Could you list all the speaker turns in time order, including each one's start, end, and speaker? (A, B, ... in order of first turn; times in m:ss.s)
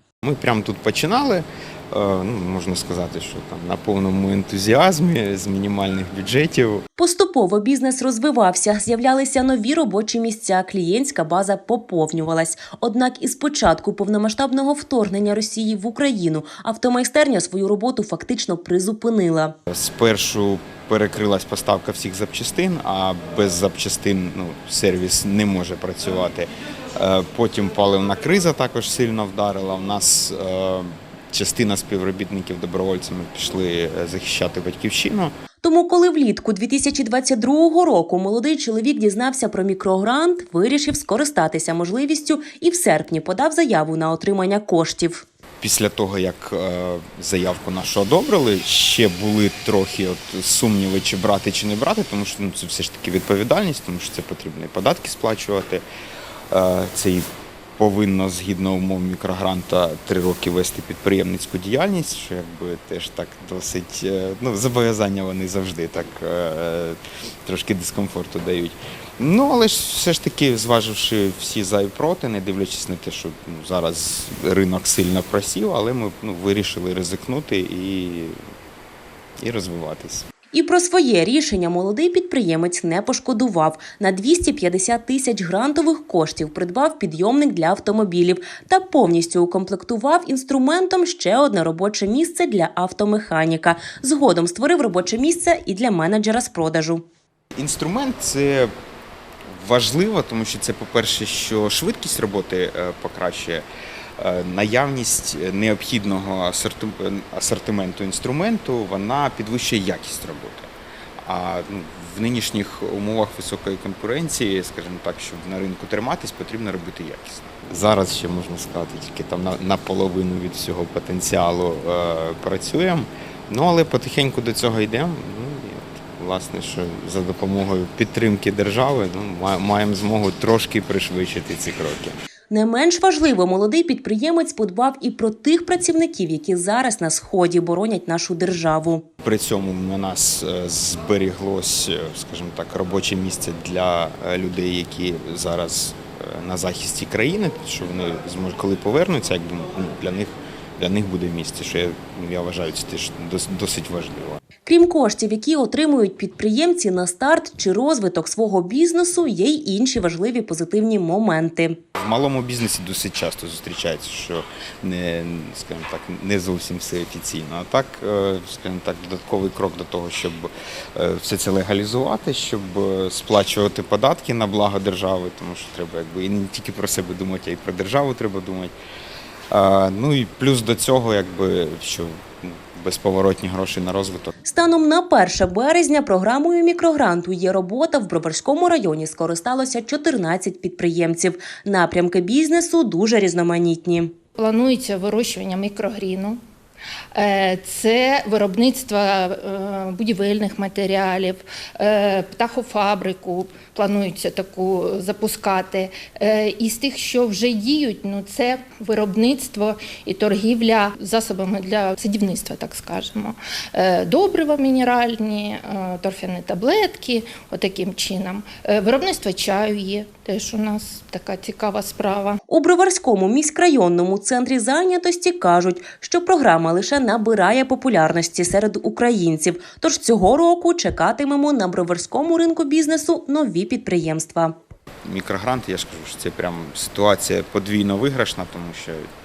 0:00.2-0:06.8 A
0:07.0-0:19.5 B
0:19.7-0:35.3 A
0:35.6-0:45.2 B
0:45.6-0:55.8 A
0:56.5-1:18.4 A
1:19.4-1:20.3 A
1:20.5-1:37.0 B
1:37.6-1:38.7 A
1:39.5-1:43.6 A
1:44.2-1:50.7 A
1:51.2-2:12.2 A
2:12.5-2:19.0 B
2:19.2-2:34.4 A
2:34.6-2:41.7 B
2:42.0-2:58.7 A
2:59.5-3:04.3 A
3:04.4-3:14.1 B
3:14.4-3:16.4 C
3:17.1-3:42.4 C
3:42.5-3:54.5 B
3:55.0-3:59.1 A